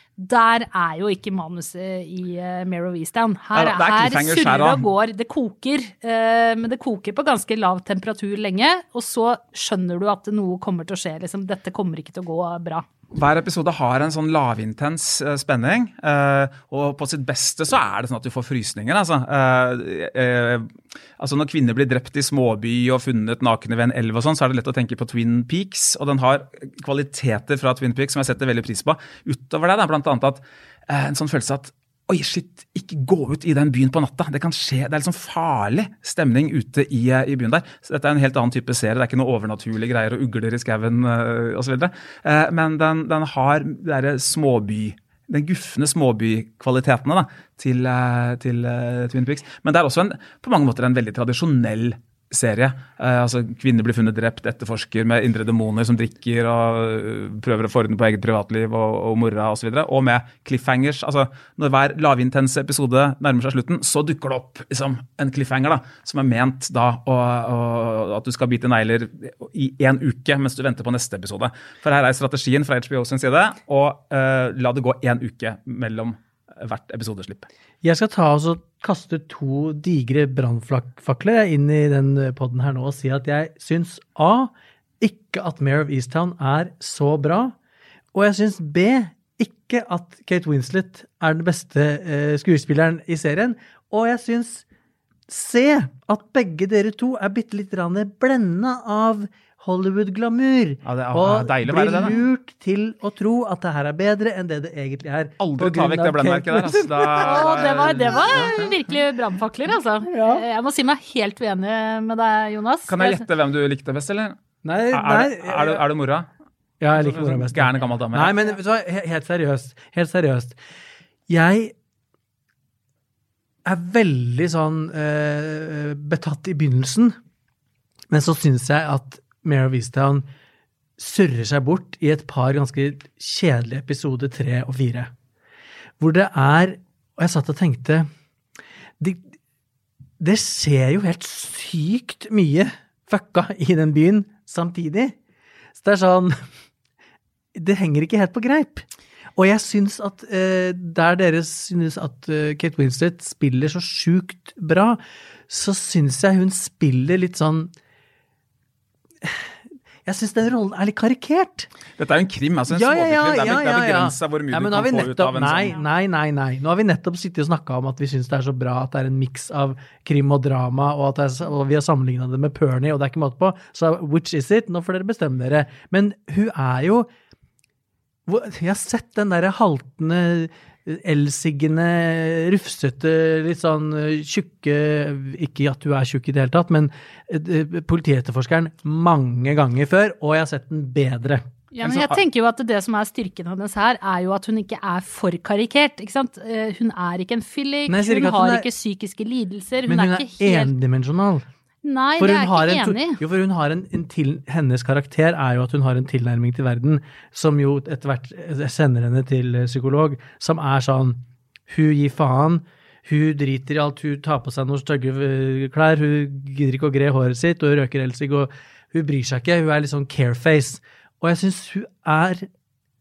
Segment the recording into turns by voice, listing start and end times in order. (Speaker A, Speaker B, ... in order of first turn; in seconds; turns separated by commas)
Speaker A: 0.2-12.8, Speaker B: 3.5-4.8, Speaker B: 13.1-77.5, Speaker C: 77.8-87.5, Speaker C: 88.1-94.6, Speaker C: 95.3-108.3, Speaker B: 100.8-102.2, Speaker B: 105.4-108.8, Speaker A: 107.2-113.2, Speaker C: 110.0-110.4, Speaker B: 112.9-114.4, Speaker C: 114.6-115.8, Speaker B: 114.9-116.3, Speaker C: 116.8-120.6, Speaker B: 116.9-118.3, Speaker C: 121.3-121.7, Speaker C: 123.6-127.2, Speaker C: 128.1-130.3, Speaker C: 131.0-135.1, Speaker C: 136.0-138.1, Speaker C: 139.0-139.3, Speaker C: 140.2-145.2, Speaker C: 145.7-146.3, Speaker C: 147.5-157.7, Speaker C: 159.2-159.5, Speaker C: 160.0-161.7, Speaker B: 162.0-165.8, Speaker C: 162.7-177.1, Speaker C: 178.3-191.4, Speaker A: 191.7-200.7, Speaker B: 191.8-192.2, Speaker C: 197.9-198.7, Speaker C: 199.9-201.4, Speaker A: 201.8-203.2, Speaker C: 202.2-222.5